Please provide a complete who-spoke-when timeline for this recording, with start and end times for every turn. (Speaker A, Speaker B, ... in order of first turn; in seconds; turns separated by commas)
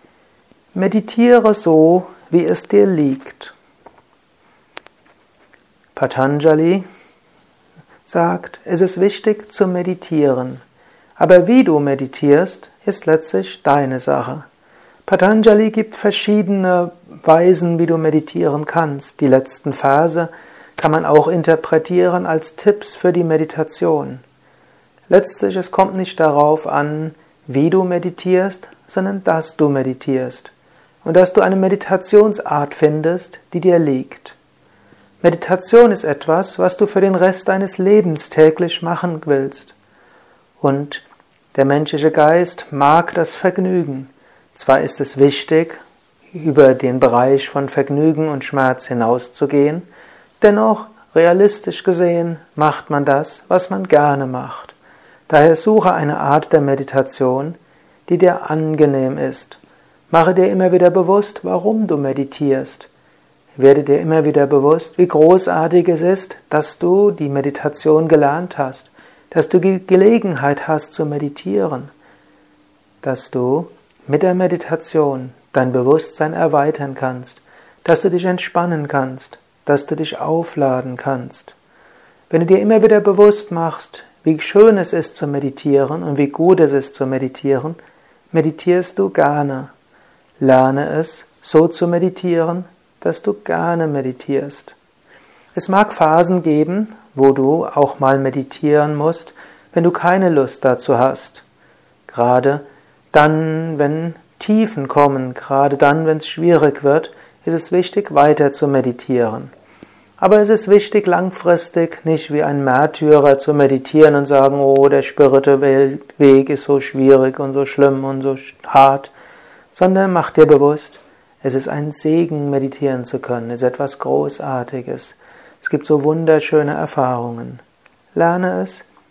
Speaker A: 0.7-3.5, Speaker A: 5.9-6.8, Speaker A: 8.1-10.6, Speaker A: 11.2-14.5, Speaker A: 15.1-24.2, Speaker A: 25.1-30.5, Speaker A: 31.0-34.4, Speaker A: 35.2-39.7, Speaker A: 40.6-45.8, Speaker A: 46.3-49.9, Speaker A: 50.4-54.7, Speaker A: 55.3-59.6, Speaker A: 60.1-62.9, Speaker A: 63.6-71.9, Speaker A: 73.0-81.5, Speaker A: 82.3-87.8, Speaker A: 88.3-89.7, Speaker A: 90.4-94.8, Speaker A: 95.5-101.4, Speaker A: 102.1-109.5, Speaker A: 110.2-119.1, Speaker A: 119.7-127.6, Speaker A: 128.1-128.8